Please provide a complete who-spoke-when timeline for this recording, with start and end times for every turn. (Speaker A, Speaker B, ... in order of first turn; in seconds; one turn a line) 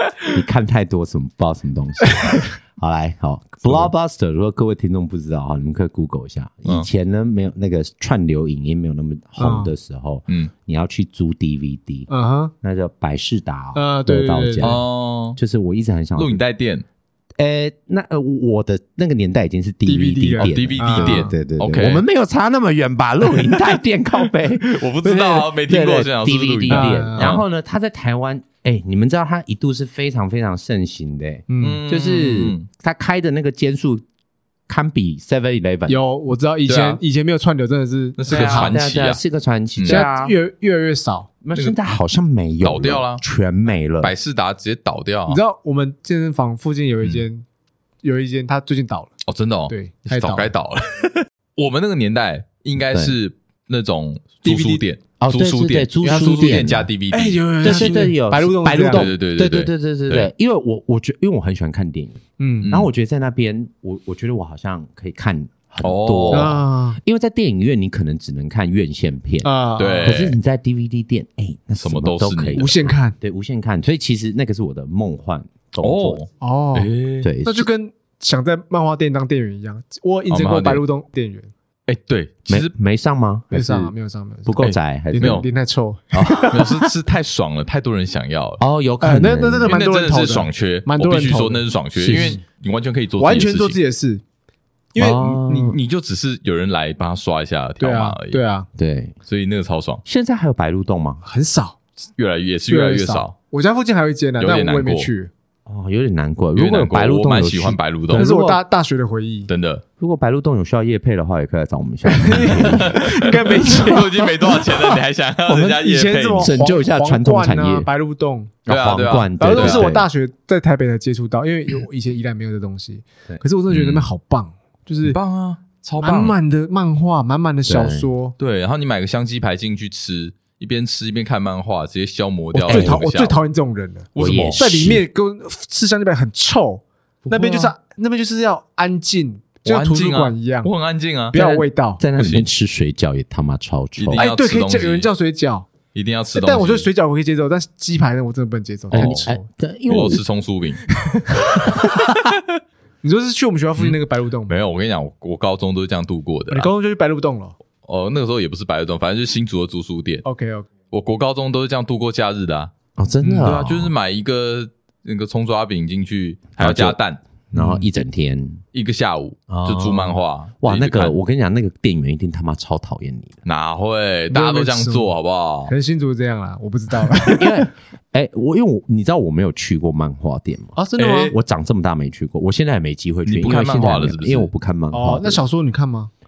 Speaker A: 0.3-12.1
Speaker B: 2.0-2.5
Speaker B: 9.4-9.7
Speaker B: 12.1-12.5
Speaker A: 12.6-14.8
Speaker B: 13.8-14.8
Speaker C: 14.6-15.4
Speaker A: 15.4-16.4
Speaker C: 16.2-16.9
Speaker A: 17.4-34.0
Speaker B: 19.9-21.3
Speaker C: 20.4-22.0
Speaker C: 23.3-23.8
Speaker C: 24.6-27.4
Speaker B: 26.7-27.4
Speaker B: 31.5-31.8
Speaker C: 31.6-32.7
Speaker A: 34.7-36.0
Speaker B: 35.9-38.8
Speaker C: 36.7-37.0
Speaker C: 38.2-39.2
Speaker A: 38.3-40.3
Speaker C: 39.8-40.0
Speaker B: 39.9-41.3
Speaker A: 41.4-44.1
Speaker C: 41.5-41.8
Speaker C: 42.6-43.2
Speaker C: 44.0-45.4
Speaker B: 45.3-47.5
Speaker B: 48.0-49.1
Speaker C: 49.3-58.0
Speaker B: 49.7-50.5
Speaker B: 54.5-54.9
Speaker A: 55.2-56.9
Speaker B: 57.1-59.1
Speaker A: 57.6-76.2
Speaker C: 58.9-60.3
Speaker B: 62.4-62.7
Speaker C: 62.6-62.9
Speaker C: 65.8-66.6
Speaker B: 66.3-67.0
Speaker B: 69.4-70.2
Speaker C: 69.8-70.4
Speaker C: 71.8-72.7
Speaker B: 72.6-73.2
Speaker C: 75.8-77.3
Speaker B: 76.4-76.9
Speaker A: 77.2-77.7
Speaker B: 77.4-81.5
Speaker C: 80.3-80.8
Speaker C: 81.9-82.7
Speaker A: 82.5-83.9
Speaker B: 83.5-86.8
Speaker A: 84.5-85.5
Speaker C: 84.6-85.5
Speaker A: 86.2-86.6
Speaker C: 86.3-88.6
Speaker A: 88.6-89.7
Speaker B: 89.0-92.4
Speaker C: 89.7-93.8
Speaker A: 92.0-92.4
Speaker B: 93.2-94.2
Speaker B: 95.0-95.8
Speaker A: 95.0-95.8
Speaker C: 95.1-98.4
Speaker B: 97.8-98.7
Speaker A: 98.8-99.2
Speaker C: 99.3-100.0
Speaker A: 100.0-101.2
Speaker B: 101.2-101.8
Speaker C: 102.2-103.3
Speaker B: 102.7-105.3
Speaker C: 104.4-105.1
Speaker A: 105.7-108.6
Speaker C: 106.5-108.3
Speaker B: 108.2-109.5
Speaker C: 109.5-109.8
Speaker A: 110.0-113.1
Speaker B: 112.1-118.6
Speaker C: 112.7-116.5
Speaker A: 116.4-117.9
Speaker A: 118.7-120.1
Speaker C: 118.7-119.9
Speaker B: 119.4-125.2
Speaker C: 123.7-124.1
Speaker C: 125.0-126.4
Speaker B: 126.0-128.3
Speaker A: 127.7-128.1
Speaker C: 128.4-133.4
Speaker B: 132.5-140.7
Speaker A: 132.7-133.0
Speaker C: 134.2-134.6
Speaker A: 134.2-135.0
Speaker C: 137.4-137.7
Speaker C: 139.7-141.4
Speaker B: 141.3-142.0
Speaker A: 141.3-144.2
Speaker C: 142.2-142.5
Speaker C: 144.0-145.1
Speaker B: 144.1-145.7
Speaker C: 145.9-146.9
Speaker B: 146.3-149.5
Speaker C: 148.9-149.3
Speaker A: 148.9-150.2
Speaker C: 149.9-150.8
Speaker B: 151.3-151.7
Speaker B: 153.0-154.6
Speaker C: 153.8-156.7
Speaker B: 156.5-157.6
Speaker C: 157.8-160.2
Speaker B: 160.2-160.7
Speaker C: 160.9-162.7
Speaker A: 163.0-163.9
Speaker B: 163.2-163.5
Speaker C: 163.3-167.2
Speaker A: 166.6-167.0
Speaker B: 167.5-167.9
Speaker A: 167.5-168.6
Speaker C: 168.7-171.1
Speaker A: 169.5-173.4
Speaker C: 173.4-175.7
Speaker B: 174.3-175.1
Speaker B: 175.7-177.7
Speaker A: 177.4-185.4
Speaker B: 180.8-181.3
Speaker C: 181.0-181.3
Speaker C: 183.3-184.5
Speaker B: 184.9-186.1